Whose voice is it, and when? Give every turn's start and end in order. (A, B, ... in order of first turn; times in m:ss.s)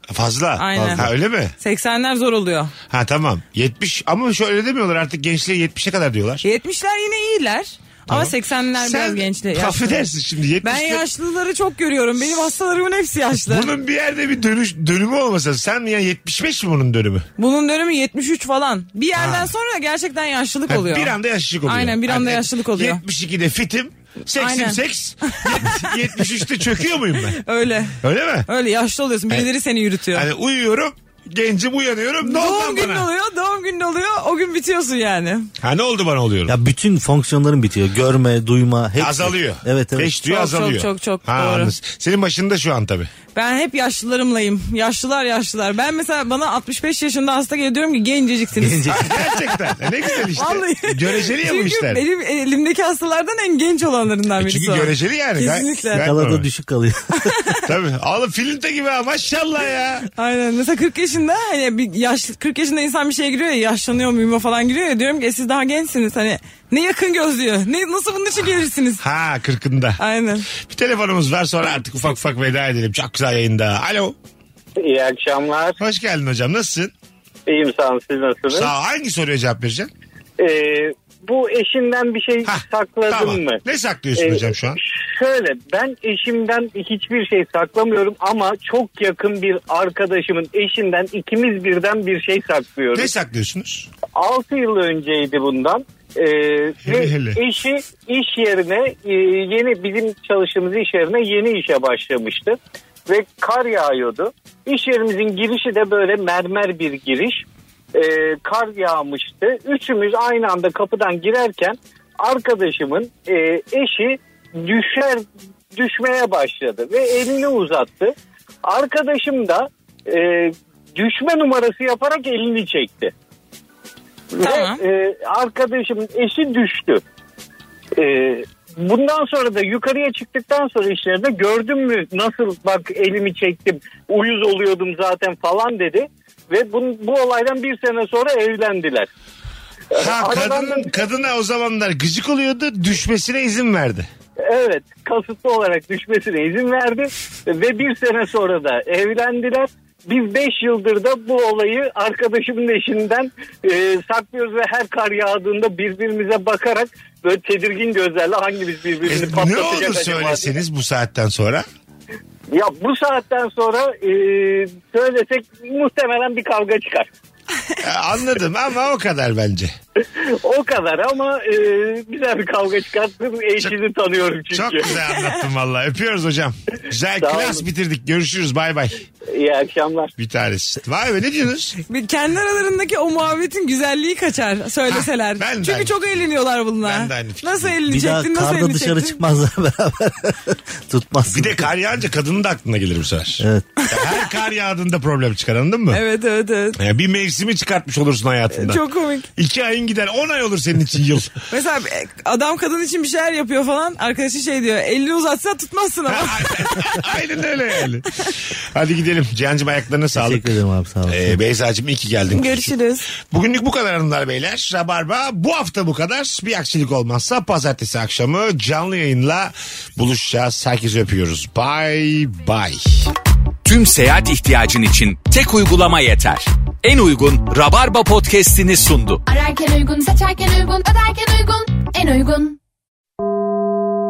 0:00.1-0:01.5 A
0:00.6-0:02.7 B
0:00.7-0:01.1 C
0:02.9-0:06.4 A
0:06.4-0:10.1 B
0:08.1-0:11.0 A
0:10.6-0:13.7 B
0:13.4-0:17.2 A
0:17.4-0:23.0 B
0:19.2-0:19.5 A
0:20.7-0:27.4 A
0:24.3-0:26.4 B
0:27.3-0:30.3 B
0:28.0-0:28.5 A
0:30.1-0:33.1 A
0:32.2-0:35.5 B
0:35.6-0:36.5 A
0:36.5-0:40.2 C
0:39.0-0:43.1 A
0:40.2-0:41.7 B
0:43.3-0:49.3 B
0:48.6-0:49.2 C
0:48.9-0:52.0 A
0:50.3-0:56.0 B
0:54.4-0:56.4 A
0:56.0-0:57.3 C
0:57.2-0:57.6 B
0:57.6-1:00.1 A
1:00.2-1:09.0 B
1:09.0-1:10.0 A
1:10.0-1:10.4 B
1:10.6-1:14.1 A
1:14.8-1:15.8 D
1:15.8-1:16.9 A
1:17.5-1:18.7 D
1:18.5-1:19.9 A
1:20.4-1:23.6 D
1:22.4-1:24.8 A
1:24.2-1:33.1 D
1:32.9-1:33.9 A
1:34.2-1:55.2 D
1:36.8-1:37.4 A
1:55.7-2:03.1 D
2:04.3-2:07.0 D
2:04.4-2:04.8 B
2:08.0-2:19.1 D
2:19.9-2:20.9 D
2:20.0-2:24.1 A
2:24.5-2:40.5 D
2:39.1-2:41.6 A
2:42.5-2:47.1 D
2:47.8-2:49.7 A
2:50.4-2:55.0 D
2:54.5-2:59.0 A
2:55.1-2:55.4 B
2:57.2-2:57.6 D
2:59.3-3:00.1 D
3:00.2-3:01.8 A
3:01.9-3:09.2 B
3:04.9-3:06.0 A
3:06.8-3:07.8 A
3:07.9-3:11.7 C
3:11.3-3:16.0 A
3:13.4-3:13.7 C
3:15.9-3:16.8 B
3:16.8-3:18.8 A
3:18.5-3:19.3 B
3:19.4-3:21.3 A
3:21.5-3:27.0 B
3:26.1-3:28.2 A
3:28.7-3:30.5 A
3:30.1-3:31.4 C
3:31.1-3:32.7 A
3:32.3-3:33.0 B
3:33.3-3:43.1 A
3:43.6-3:49.2 E
3:49.2-3:52.6 F